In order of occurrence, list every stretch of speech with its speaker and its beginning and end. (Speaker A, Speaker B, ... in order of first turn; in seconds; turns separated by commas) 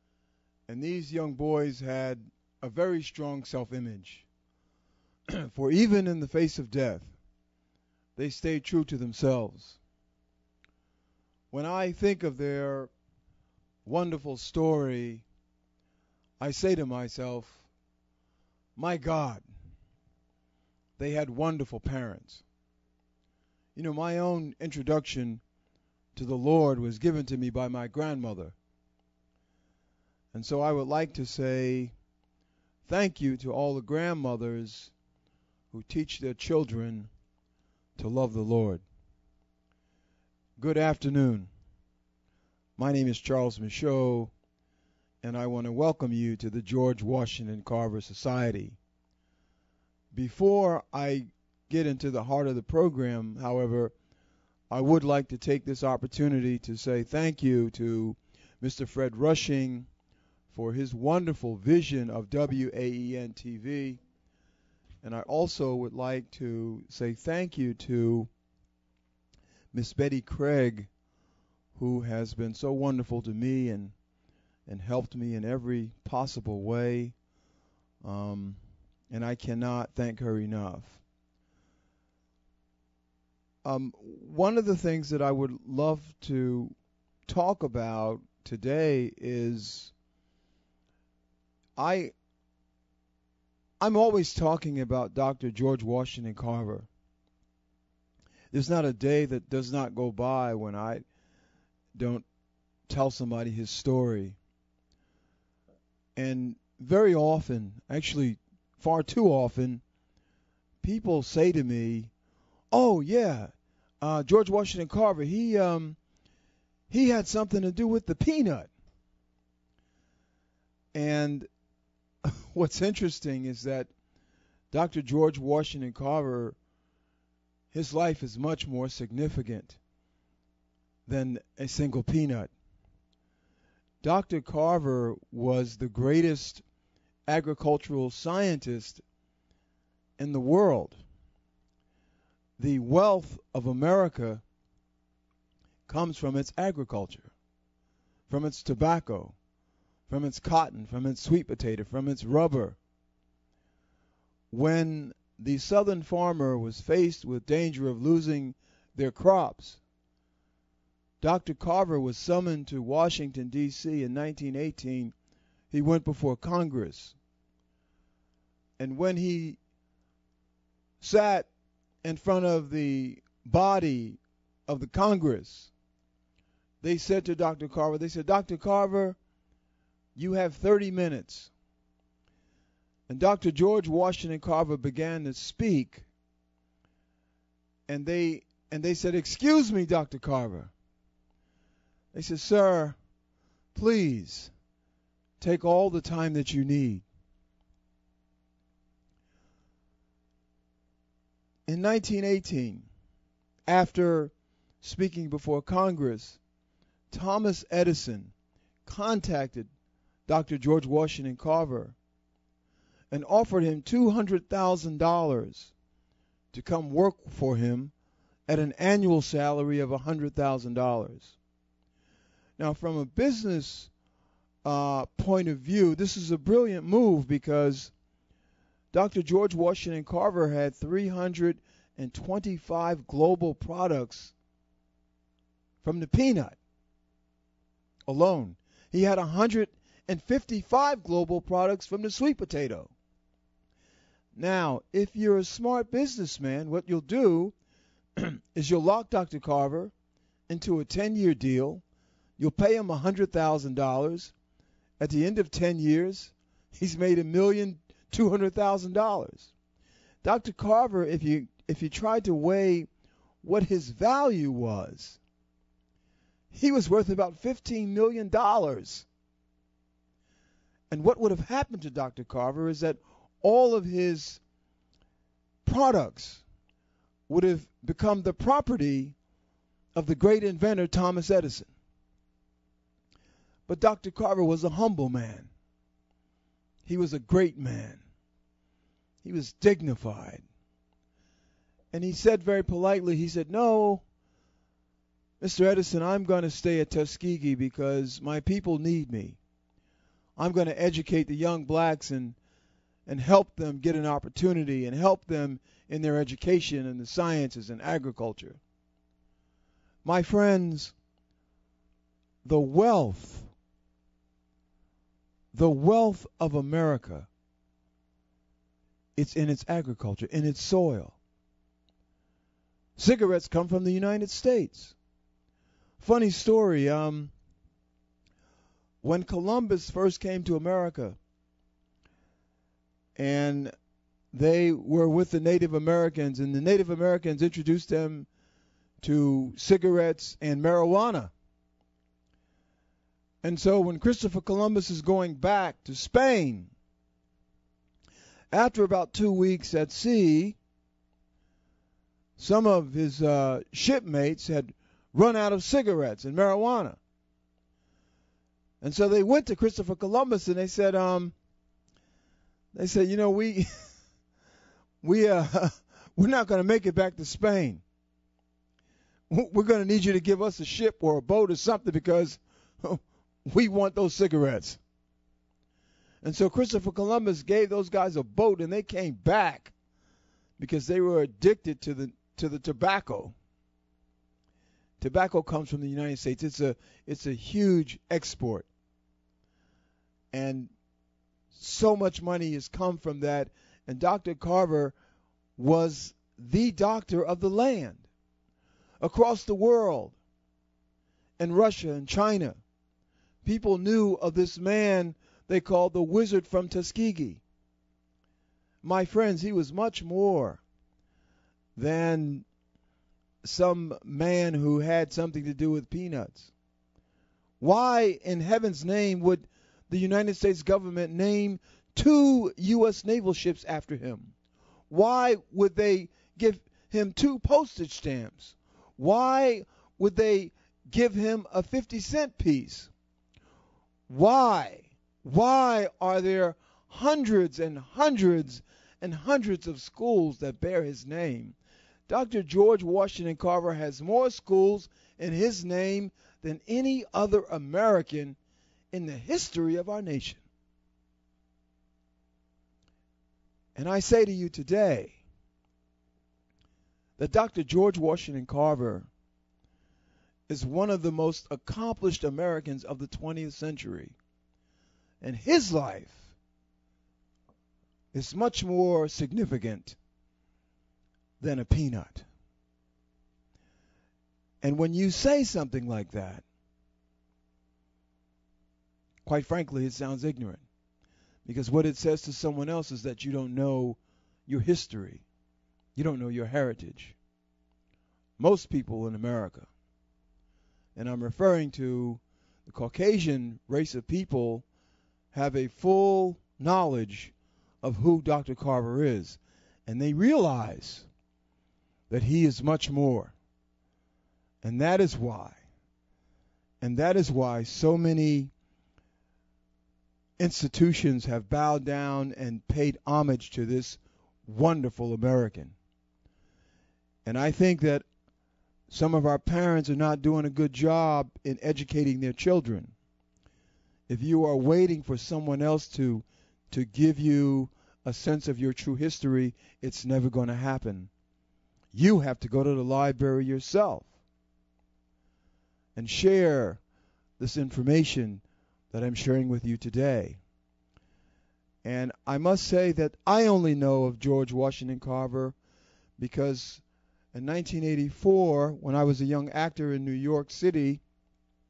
Speaker A: 0.7-4.3, Speaker A: 5.3-7.1, Speaker A: 8.2-9.8, Speaker A: 11.5-12.9, Speaker A: 13.8-15.2, Speaker A: 16.4-17.6, Speaker A: 18.8-19.4, Speaker A: 21.0-22.4, Speaker A: 23.8-25.4, Speaker A: 26.1-28.6, Speaker A: 30.3-31.9, Speaker A: 32.8-34.9, Speaker A: 35.7-37.1, Speaker A: 38.0-38.8, Speaker A: 40.6-41.5, Speaker A: 42.8-44.3, Speaker A: 45.2-48.8, Speaker A: 50.1-53.9, Speaker A: 54.7-59.9, Speaker A: 60.5-64.0, Speaker A: 65.0-68.3, Speaker A: 69.7-70.9, Speaker A: 71.7-73.9, Speaker A: 74.7-77.1, Speaker A: 78.0-78.6, Speaker A: 79.1-81.0, Speaker A: 83.6-86.7, Speaker A: 87.3-89.9, Speaker A: 91.8-92.1, Speaker A: 93.8-96.9, Speaker A: 98.5-101.0, Speaker A: 101.9-102.2, Speaker A: 102.9-104.4, Speaker A: 106.2-109.8, Speaker A: 110.8-112.1, Speaker A: 112.7-116.0, Speaker A: 116.9-118.7, Speaker A: 120.9-121.5, Speaker A: 122.2-123.9, Speaker A: 124.7-126.5, Speaker A: 127.7-129.8, Speaker A: 131.1-132.5, Speaker A: 134.0-136.6, Speaker A: 137.3-139.0, Speaker A: 140.2-141.0, Speaker A: 142.6-144.4, Speaker A: 145.9-147.3, Speaker A: 148.3-149.3, Speaker A: 150.1-152.8, Speaker A: 154.5-159.8, Speaker A: 161.2-165.1, Speaker A: 165.7-167.2, Speaker A: 168.8-169.6, Speaker A: 171.0-171.5, Speaker A: 172.0-175.7, Speaker A: 176.8-179.2, Speaker A: 180.1-181.5, Speaker A: 183.1-186.1, Speaker A: 187.9-190.7, Speaker A: 192.1-192.9, Speaker A: 193.8-194.5, Speaker A: 195.4-197.0, Speaker A: 201.7-202.8, Speaker A: 203.7-206.4, Speaker A: 207.1-208.3, Speaker A: 208.8-209.7, Speaker A: 210.3-211.9, Speaker A: 213.1-215.7, Speaker A: 216.5-217.9, Speaker A: 218.5-221.3, Speaker A: 222.6-223.9, Speaker A: 224.6-227.9, Speaker A: 228.9-234.3, Speaker A: 235.8-236.6, Speaker A: 238.1-242.9, Speaker A: 244.3-247.5, Speaker A: 248.2-249.9, Speaker A: 250.5-251.8, Speaker A: 252.4-254.3, Speaker A: 255.0-259.5, Speaker A: 260.2-262.9, Speaker A: 263.4-265.2, Speaker A: 266.5-269.1, Speaker A: 270.9-274.4, Speaker A: 275.6-276.4, Speaker A: 277.3-279.1, Speaker A: 279.9-281.7, Speaker A: 283.7-285.5, Speaker A: 286.9-288.0, Speaker A: 289.2-290.4, Speaker A: 291.9-294.0, Speaker A: 295.4-299.4, Speaker A: 300.4-302.4, Speaker A: 303.1-308.6, Speaker A: 310.0-310.9, Speaker A: 312.4-313.5, Speaker A: 315.5-317.3, Speaker A: 319.1-321.1, Speaker A: 323.0-324.9, Speaker A: 326.0-327.3, Speaker A: 329.0-331.2, Speaker A: 333.1-333.7, Speaker A: 334.3-338.3, Speaker A: 339.0-341.3, Speaker A: 343.4-346.7, Speaker A: 348.5-350.6, Speaker A: 352.4-357.0, Speaker A: 358.8-361.3, Speaker A: 362.7-363.7, Speaker A: 365.0-367.8, Speaker A: 369.3-374.8, Speaker A: 376.2-379.7, Speaker A: 380.6-383.3, Speaker A: 385.0-388.7, Speaker A: 390.3-390.7, Speaker A: 391.5-394.9, Speaker A: 395.6-398.1, Speaker A: 399.0-400.1, Speaker A: 401.4-402.6, Speaker A: 403.4-407.4, Speaker A: 408.8-410.6, Speaker A: 411.8-412.4, Speaker A: 413.4-416.5, Speaker A: 417.6-424.3, Speaker A: 424.9-432.9, Speaker A: 434.1-441.6, Speaker A: 442.1-448.4, Speaker A: 448.9-450.4, Speaker A: 453.8-455.2, Speaker A: 457.2-459.1, Speaker A: 460.5-464.2, Speaker A: 465.2-466.3, Speaker A: 468.1-470.0, Speaker A: 471.4-472.2, Speaker A: 474.6-476.4, Speaker A: 479.2-480.6, Speaker A: 481.4-485.2, Speaker A: 485.9-487.2, Speaker A: 488.4-489.7, Speaker A: 490.9-494.6, Speaker A: 495.3-501.1, Speaker A: 502.1-503.3, Speaker A: 504.6-505.6, Speaker A: 506.8-508.5, Speaker A: 510.4-515.8, Speaker A: 517.2-518.0, Speaker A: 518.9-522.9, Speaker A: 524.1-531.1, Speaker A: 531.9-534.1, Speaker A: 536.0-536.8, Speaker A: 537.4-540.4, Speaker A: 541.8-545.6, Speaker A: 546.2-546.8, Speaker A: 547.3-551.0